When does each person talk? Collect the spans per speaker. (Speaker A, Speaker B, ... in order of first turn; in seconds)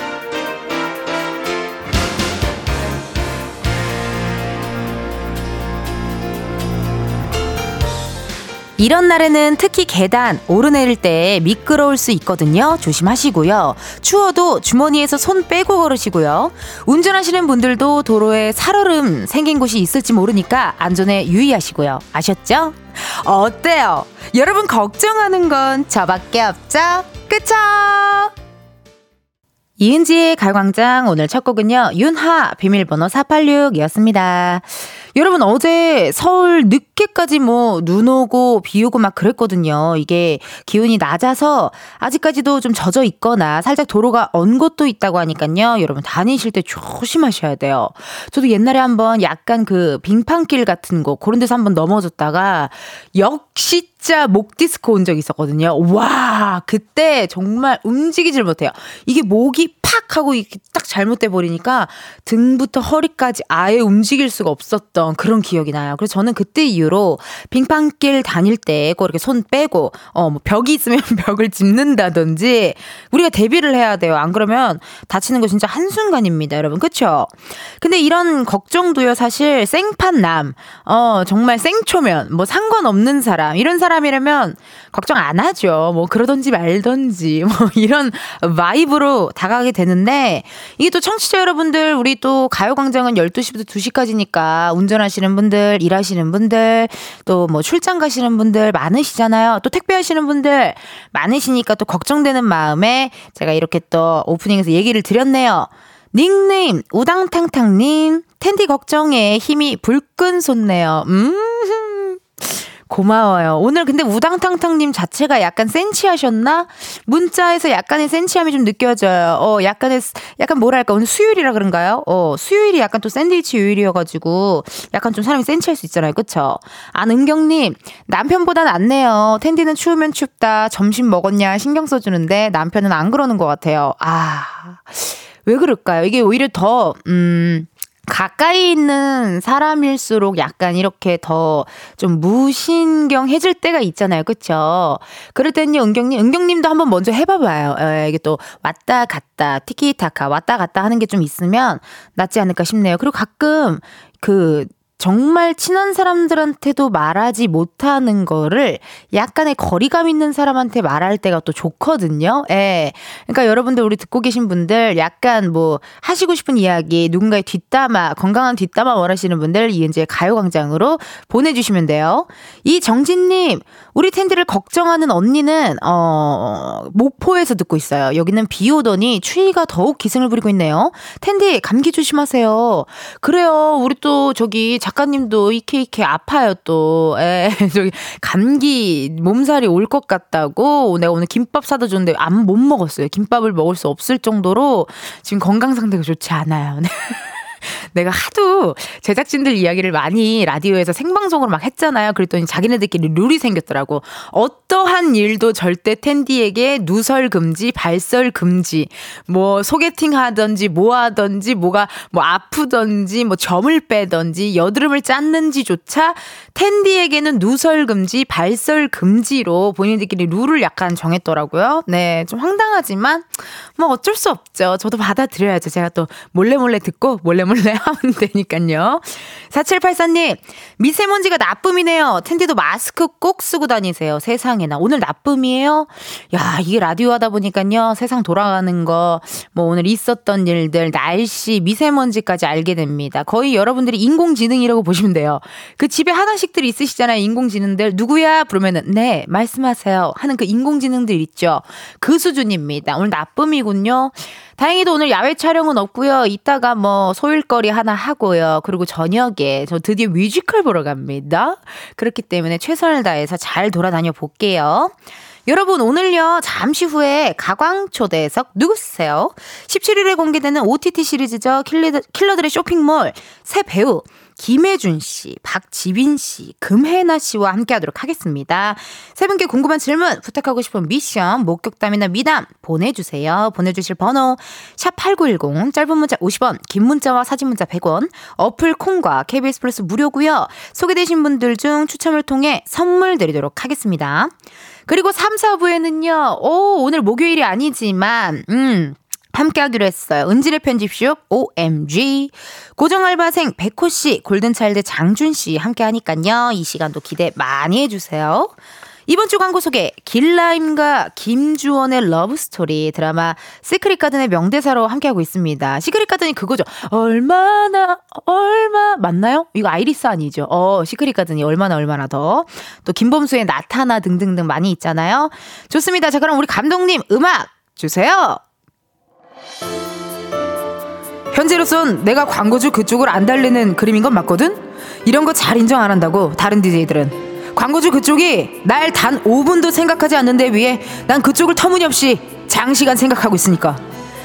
Speaker A: 8.8-28.3, 29.8-264.9, 265.5-294.3, 294.9-308.5, 309.1-328.4, 331.3-343.8